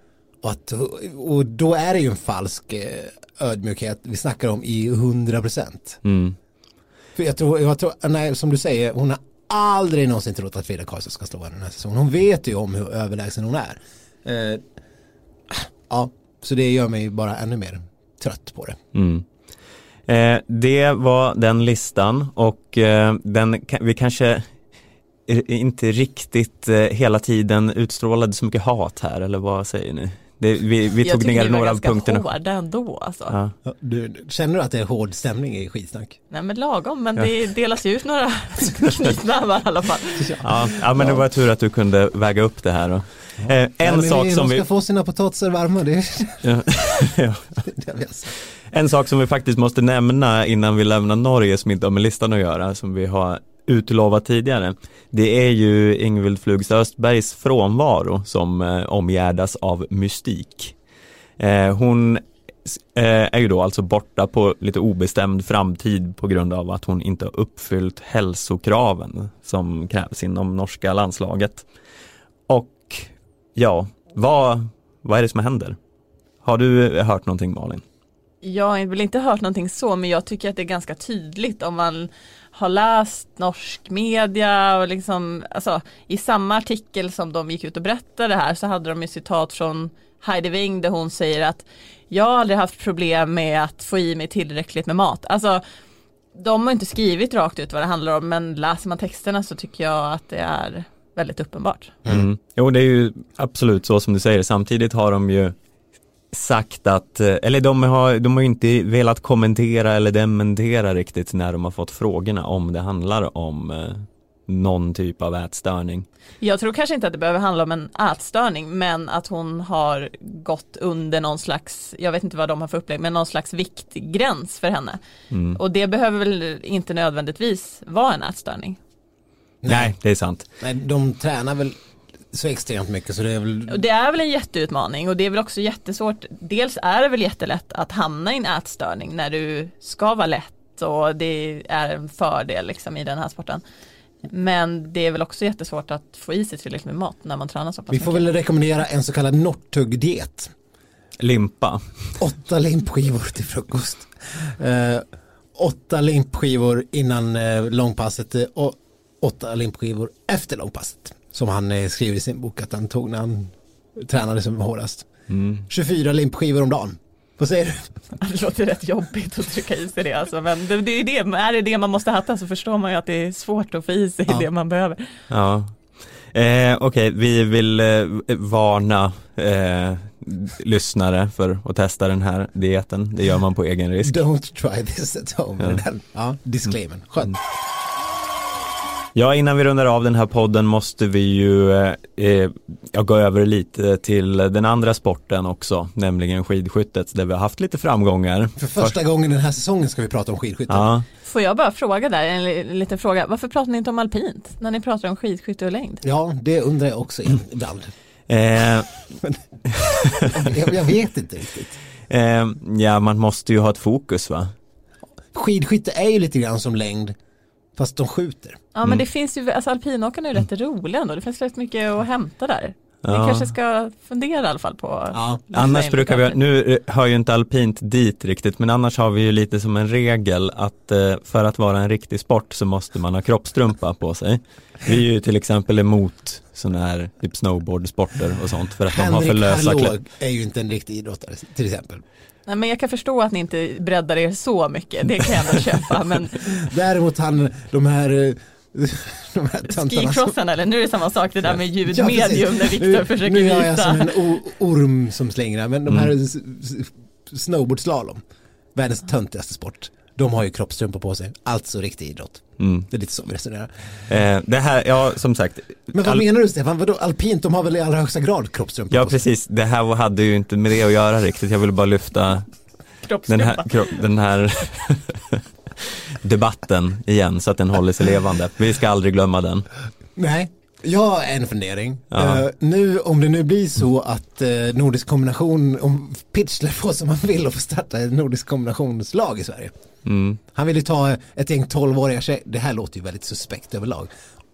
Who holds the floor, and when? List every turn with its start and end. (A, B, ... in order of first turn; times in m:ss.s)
0:00.4-0:06.0 A
0:06.0-0:06.4 B
0:07.2-0:14.6 A
0:15.5-0:18.8 A
0:18.9-0:19.3 B
0:20.1-0:24.5 B
0:25.3-0:32.2 B
0:31.0-0:33.4 C
0:33.6-0:36.2 A
0:36.3-0:40.4 C
0:40.2-0:41.2 A
0:40.4-0:44.6 B
0:43.4-0:46.5 A
0:46.4-0:47.6 B
0:47.7-0:48.3 A
0:48.7-1:00.8 B
1:01.4-1:11.7 B
1:12.5-1:15.8 B
1:16.4-1:17.8 B
1:18.4-1:35.6 C
1:36.4-1:42.0 C
1:42.1-1:45.6 B
1:46.3-1:56.1 B
1:56.4-2:05.0 C
2:05.3-2:05.6 B
2:05.6-2:08.8 C
2:09.6-2:09.9 A
2:09.7-2:10.5 B
2:10.6-2:11.8 A
2:12.3-2:13.8 A
2:13.7-2:23.6 C
2:24.3-2:28.3 C
2:27.9-2:30.5 A
2:31.2-2:31.8 B
2:32.2-2:45.1 A
2:45.3-2:45.7 B
2:45.7-2:48.0 A
2:48.2-2:55.1 C
2:55.3-3:04.2 B
3:04.0-3:07.4 A
3:09.2-3:19.0 B
3:18.6-3:20.9 A
3:20.7-3:21.0 B
3:21.3-3:26.0 C
3:26.0-3:27.9 A
3:28.3-3:28.9 B
3:29.2-3:31.8 A
3:29.7-3:30.5 B
3:32.1-3:34.5 B
3:35.3-3:37.2 A
3:37.8-3:38.6 A
3:38.7-3:46.4 C
3:43.0-3:43.5 B
3:45.1-3:45.4 A
3:45.5-4:00.0 B
3:58.9-4:02.0 A
4:02.5-4:06.5 C
4:06.5-4:10.4 A
4:09.7-4:14.2 C
4:11.9-4:18.2 A
4:18.8-4:23.7 A
4:22.6-4:22.9 B
4:24.1-4:26.2 B
4:25.9-4:29.2 A
4:28.9-4:32.5 B
4:33.0-4:33.8 C
4:33.3-4:39.7 B
4:40.2-4:49.7 A
4:42.1-4:42.4 B
4:50.1-4:50.4 B
4:50.5-4:54.1 A